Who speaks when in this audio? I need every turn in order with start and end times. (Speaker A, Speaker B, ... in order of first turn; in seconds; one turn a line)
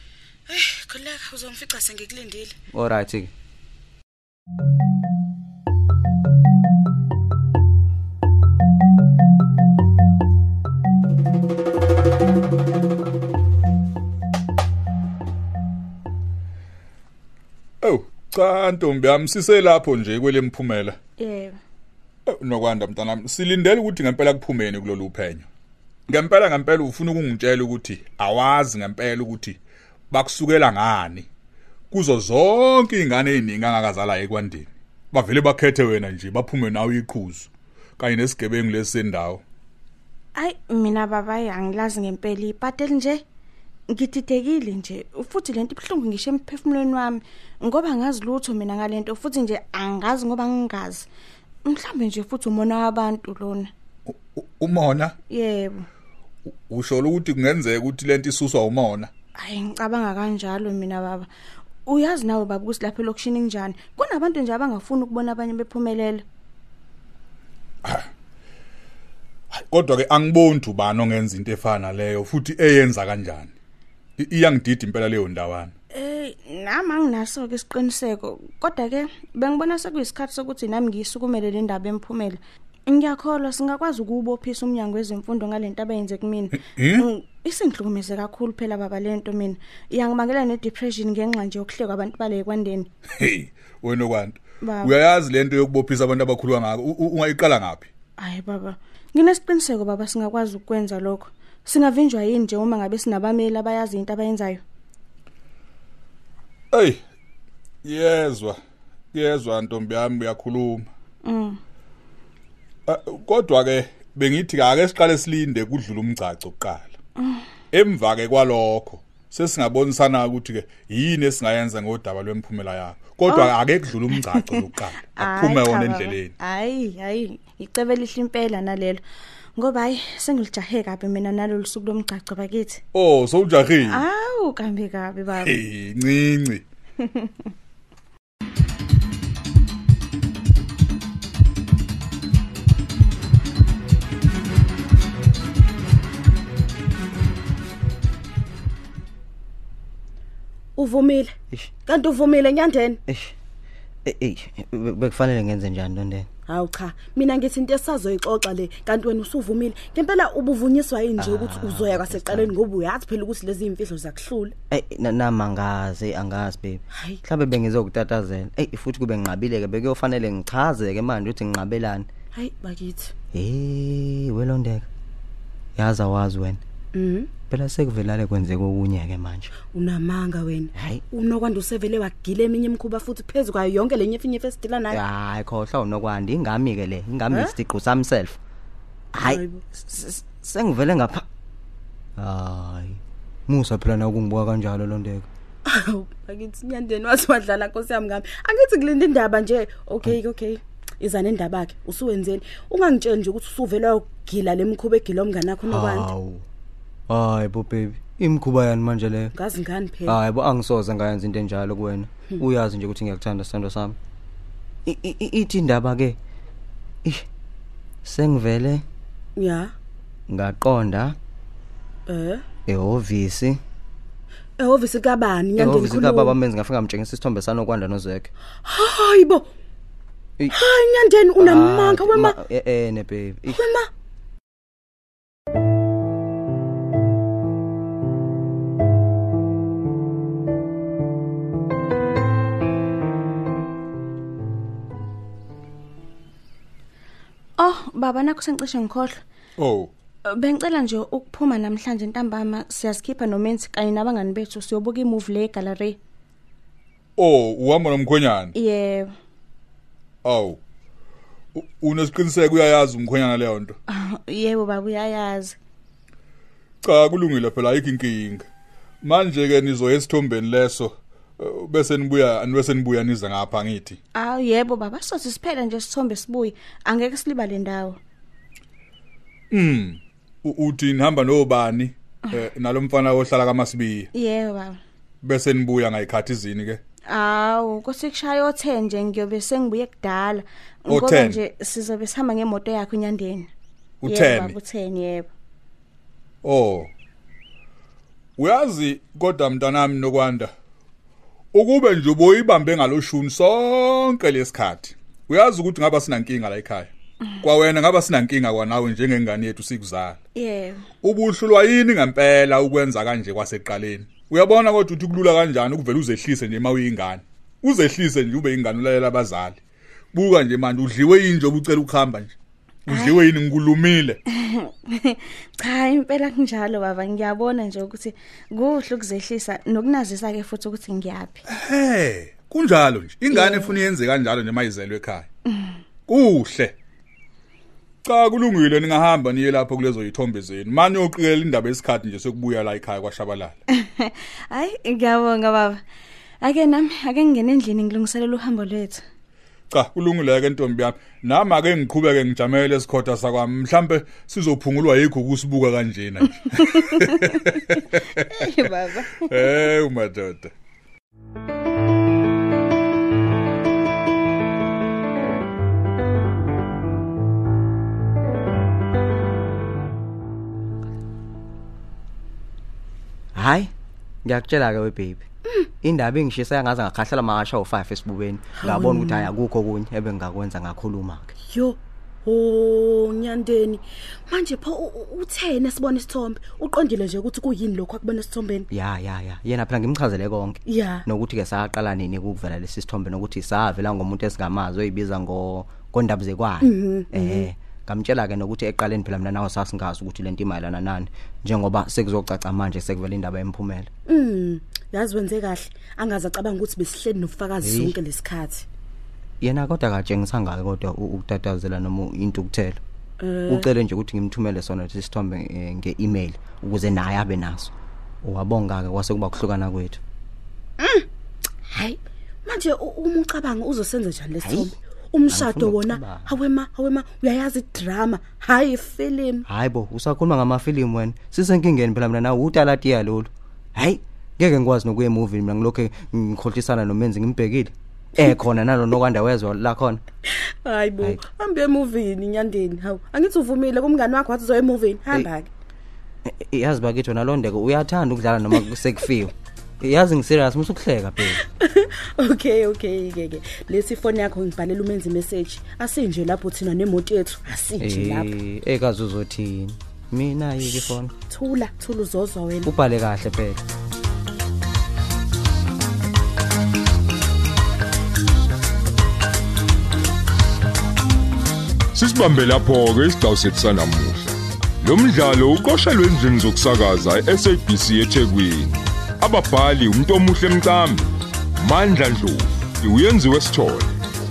Speaker A: 0.5-2.5
Speaker B: 2.7-3.3
Speaker C: 17.8-21.0
Speaker D: 21.2-21.6
Speaker C: 22.3-25.5
Speaker C: 26.1-29.6
Speaker C: 30.1-31.3
Speaker C: 31.9-39.4
Speaker D: 40.4-43.2
Speaker D: 43.9-51.1
Speaker D: 51.6-53.7
Speaker C: 54.1-55.2
Speaker D: 55.3-55.9
Speaker C: 56.7-59.1
Speaker D: 59.4-61.3
Speaker D: 61.9-66.2
Speaker C: 67.8-68.1
Speaker C: 69.5-73.5
Speaker C: 74.2-75.7
Speaker D: 75.9-92.9
Speaker C: 86.6-87.1
Speaker C: 93.2-97.9
Speaker D: 94.6-94.9
Speaker D: 98.2-104.6
Speaker C: 106.7-107.0
Speaker C: 107.8-108.6
Speaker C: 109.1-110.9
Speaker D: 111.2-111.6
Speaker C: 112.9-117.0
Speaker D: 117.2-117.4
Speaker C: 117.7-126.3
Speaker D: 123.3-123.5
Speaker D: 124.1-129.0
Speaker D: 129.6-132.8
Speaker C: 132.9-134.1
Speaker D: 133.8-135.6
Speaker C: 135.4-136.6
Speaker D: 137.0-137.3
Speaker A: 150.8-151.3
Speaker A: 151.9-153.0
Speaker B: 153.1-153.4
Speaker B: 154.1-156.3
Speaker A: 156.5-164.5
Speaker B: 161.2-162.5
Speaker B: 164.7-172.1
Speaker A: 166.9-167.2
Speaker A: 172.3-173.1
Speaker B: 173.3-174.9
Speaker B: 175.8-176.6
Speaker A: 176.9-177.3
Speaker B: 177.5-179.5
Speaker A: 179.7-185.0
Speaker B: 180.8-181.0
Speaker B: 184.9-188.4
Speaker B: 189.1-191.3
Speaker A: 189.2-189.6
Speaker B: 192.2-195.3
Speaker A: 195.7-206.1
Speaker B: 205.7-206.5
Speaker B: 207.1-209.3
Speaker A: 209.3-210.2
Speaker B: 210.1-214.0
Speaker B: 214.9-216.2
Speaker B: 218.1-218.8
Speaker A: 219.4-219.7
Speaker B: 220.3-221.2
Speaker A: 222.1-222.4
Speaker B: 222.7-223.6
Speaker A: 224.6-226.4
Speaker B: 225.6-228.3
Speaker A: 228.7-229.5
Speaker A: 230.5-232.4
Speaker B: 231.4-233.6
Speaker A: 233.5-233.9
Speaker D: 247.6-249.2
Speaker C: 249.6-249.9
Speaker D: 250.3-256.0
Speaker C: 257.2-258.5
Speaker D: 258.5-259.1
Speaker C: 260.2-260.6
Speaker C: 261.5-263.8
Speaker D: 263.9-265.6
Speaker C: 266.8-268.5
Speaker C: 269.0-274.0
Speaker D: 274.1-278.0
Speaker C: 279.5-284.1
Speaker D: 284.1-284.8
Speaker C: 285.2-286.8
Speaker D: 287.1-293.5
Speaker C: 290.9-291.4
Speaker C: 294.0-294.6
Speaker D: 294.0-295.3
Speaker C: 296.4-296.9
Speaker C: 298.4-300.5
Speaker C: 301.5-310.2
Speaker D: 310.4-310.9
Speaker C: 311.0-319.6
Speaker C: 320.1-322.4
Speaker C: 322.9-324.2
Speaker D: 322.9-323.2
Speaker D: 324.3-331.4
Speaker C: 331.5-335.3
Speaker D: 333.3-333.8
Speaker C: 336.1-336.8
Speaker C: 338.1-343.6
Speaker D: 343.7-345.8
Speaker D: 346.4-349.0
Speaker C: 349.7-358.5
Speaker D: 356.8-359.7
Speaker C: 359.3-360.5
Speaker B: 373.3-373.7
Speaker B: 374.2-375.2
Speaker B: 375.8-381.3
Speaker A: 378.6-379.3
Speaker A: 381.5-388.7
Speaker B: 388.7-403.9
Speaker A: 390.7-391.1
Speaker A: 396.6-397.5
Speaker A: 404.1-408.7
Speaker B: 407.6-408.0
Speaker B: 409.4-412.8
Speaker A: 413.2-413.7
Speaker B: 413.5-417.7
Speaker B: 418.2-420.0
Speaker A: 420.8-421.1
Speaker A: 421.7-429.5
Speaker B: 424.4-424.7
Speaker B: 425.3-426.4
Speaker B: 429.5-440.0
Speaker A: 440.3-445.5
Speaker B: 446.3-451.4
Speaker A: 451.5-458.3
Speaker B: 457.8-461.1
Speaker A: 461.3-462.7
Speaker B: 462.7-463.6
Speaker E: 471.9-484.0